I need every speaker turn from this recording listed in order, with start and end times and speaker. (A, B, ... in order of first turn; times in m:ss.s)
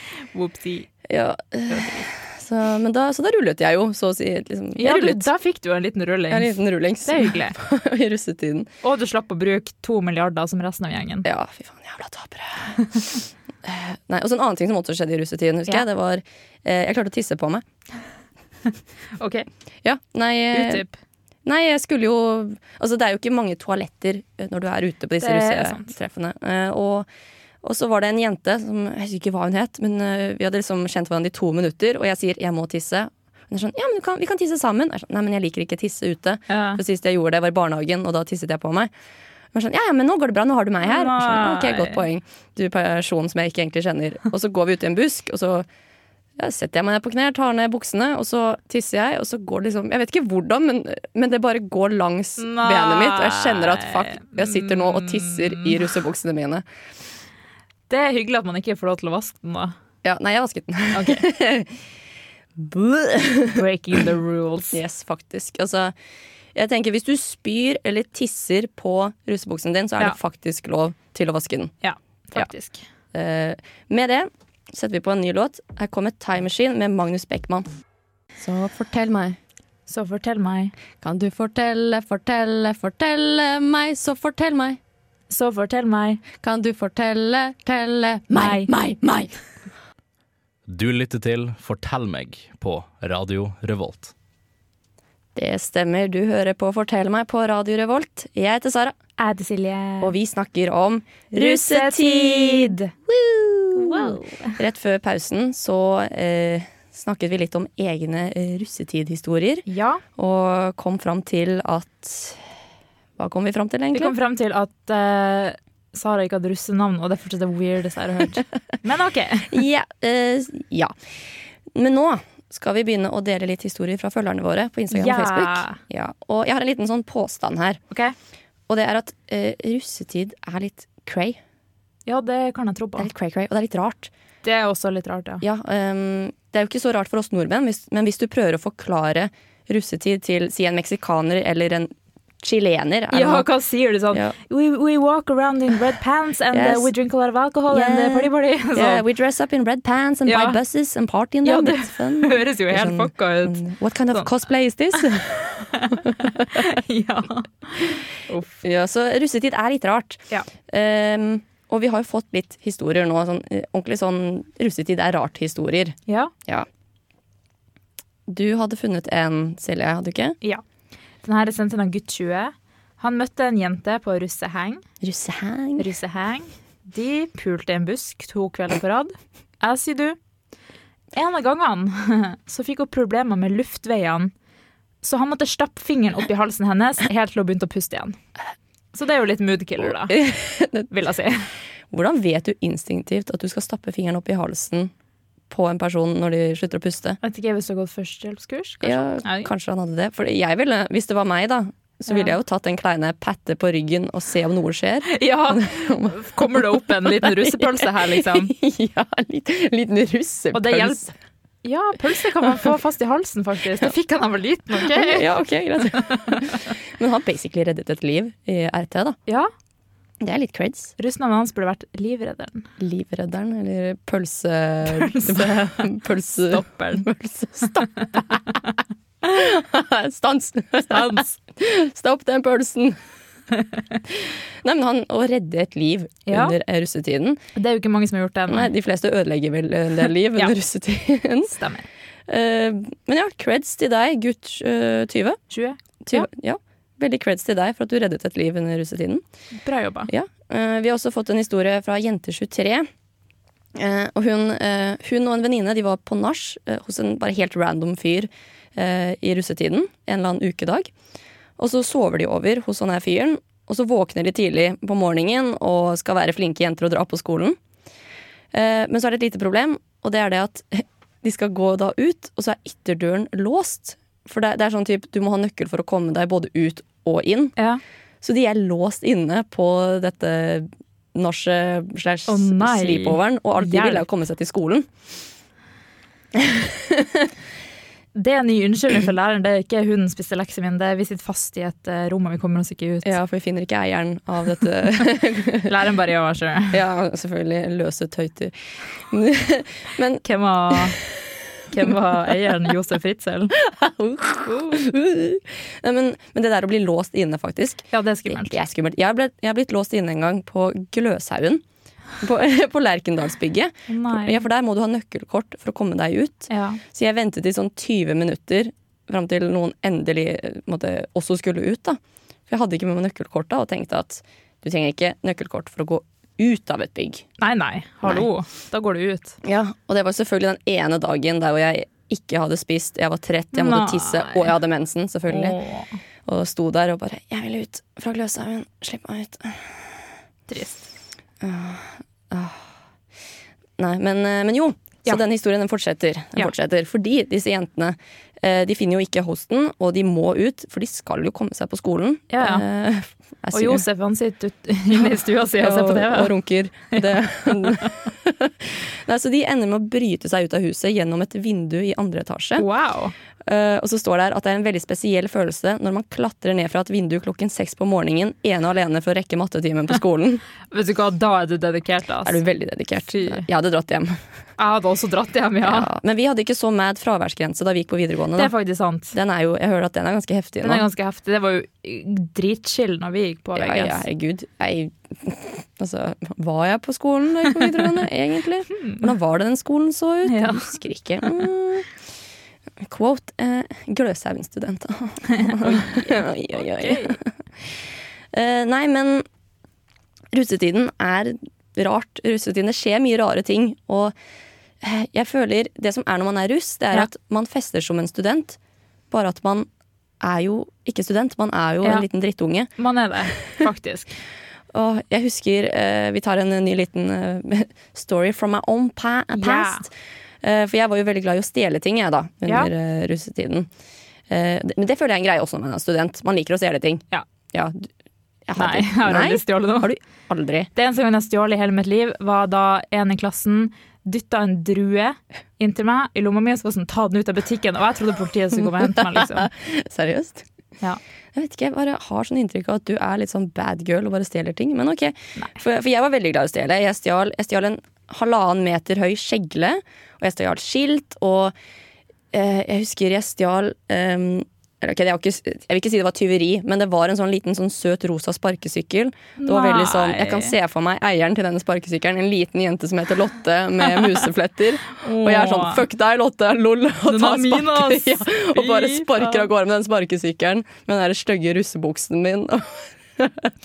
0:00.3-0:00.9 A
0:01.0-0:05.3 B
0:01.7-0:02.0 A
0:04.8-0:07.6 A
0:06.3-0:08.7 B
0:08.8-0:11.2 A
0:11.2-0:12.8 B
0:13.6-0:17.6 B
0:19.2-0:19.5 A
0:19.8-0:20.8 B
0:20.5-0:20.9 A
0:21.4-0:27.1 B
0:25.2-0:25.9 A
0:27.6-0:38.9 B
0:36.5-0:36.8 A
0:39.5-0:45.7 B
0:40.8-0:42.0 A
0:46.4-0:56.6 B
0:52.4-0:55.8 A
0:57.9-0:59.7 A
1:00.0-1:01.7 B
1:00.9-1:01.2 A
1:02.6-1:03.6 B
1:03.5-1:04.8 A
1:04.7-1:05.9 B
1:06.5-1:11.7 B
1:11.8-1:12.8 A
1:13.1-1:17.6 B
1:18.4-1:19.4 B
1:19.9-1:20.7 A
1:21.0-1:24.8 B
1:25.3-1:26.2 A
1:26.4-1:29.3 B
1:28.3-1:28.7 A
1:30.7-1:34.1 C
1:35.3-1:39.0 B
1:39.2-1:40.1 A
1:40.0-1:52.4 B
1:41.3-1:42.9 A
1:43.7-1:44.6 A
1:49.7-1:50.0 A
1:53.2-1:54.1 B
1:53.9-1:59.6 A
1:59.5-2:00.9 B
2:01.7-2:07.8 B
2:04.9-2:05.8 A
2:08.7-2:11.4 B
2:12.1-2:13.1 A
2:13.0-2:14.1 B
2:14.4-2:15.4 A
2:15.4-2:23.5 B
2:23.1-2:29.0 A
2:26.5-2:26.9 B
2:27.7-2:35.4 B
2:30.2-2:30.6 A
2:31.4-2:34.3 A
2:35.0-2:38.6 A
2:35.9-2:36.4 B
2:38.6-2:46.7 B
2:46.1-2:46.3 A
2:48.3-2:50.4 B
2:51.2-2:54.8 A
2:55.0-2:55.9 B
2:55.8-3:00.2 A
3:01.1-3:04.3 A
3:05.0-3:08.2 A
3:08.9-3:10.2 A
3:09.8-3:10.9 B
3:10.9-3:11.5 A
3:11.9-3:14.9 B
3:15.5-3:17.2 B
3:17.2-3:19.5 A
3:18.8-3:31.1 B
3:22.1-3:22.3 A
3:25.0-3:28.5 A
3:30.5-3:31.1 A
3:31.6-3:35.3 A
3:34.7-3:39.2 B
3:35.9-3:36.6 A
3:40.2-3:40.9 B
3:41.0-3:42.7 A
3:42.8-3:48.4 B
3:44.8-3:47.0 A
3:49.2-3:53.0 B
3:50.9-3:51.3 A
3:54.1-3:57.4 B
3:56.3-3:56.6 A
3:57.5-3:58.7 A
3:58.5-4:01.5 B
4:01.4-4:01.8 A
4:02.3-4:05.4 B
4:05.5-4:06.3 A
4:06.0-4:09.2 B
4:09.6-4:10.1 A
4:10.1-4:12.9 B
4:13.7-4:20.9 B
4:21.6-4:27.6 B
4:28.5-4:37.5 B
4:38.2-4:44.9 B
4:42.3-4:44.0 A
4:46.3-4:47.3 B
4:48.1-4:53.1 A
4:53.0-4:55.7 B
4:55.6-4:56.8 A
4:56.7-5:00.9 B
5:00.2-5:01.0 A
5:01.7-5:03.5 A
5:03.5-5:11.6 B
5:04.4-5:04.8 A
5:07.9-5:08.6 A
5:12.2-5:27.2 B
5:13.9-5:14.4 A
5:16.5-5:16.8 A
5:27.4-5:29.4 A
5:29.4-5:35.6 B
5:33.5-5:34.5 A
5:35.3-5:36.0 A
5:36.2-5:39.8 B
5:40.5-5:40.8 A
5:41.4-5:42.7 B
5:43.8-5:53.8 B
5:52.3-5:52.6 A
5:53.5-5:56.3 A
5:55.6-6:02.6 B
6:02.6-6:03.1 A
6:03.4-6:10.4 B
6:10.7-6:12.4 A
6:12.2-6:14.2 B
6:13.0-6:13.4 A
6:14.6-6:15.9 A
6:15.6-6:18.5 B
6:18.4-6:19.2 A
6:19.1-6:20.8 B
6:20.6-6:24.0 A
6:23.6-6:31.9 B
6:28.7-6:29.0 A
6:30.2-6:30.6 A
6:32.8-6:37.3 B
6:35.3-6:37.2 A
6:38.3-6:39.2 B
6:40.3-6:44.1 B
6:44.8-6:48.6 B
6:49.1-6:49.7 B
6:50.2-6:52.7 B
6:52.8-6:54.1 A
6:54.7-7:03.7 B
6:59.3-6:59.8 A
7:04.3-7:07.9 B
7:08.5-7:10.7 B
7:08.6-7:09.9 A
7:10.7-7:19.5 A
7:18.6-7:20.5 B
7:21.3-7:31.5 B
7:32.3-7:53.5 B
7:39.4-7:40.5 A
7:45.0-7:45.8 A
7:47.0-7:49.5 A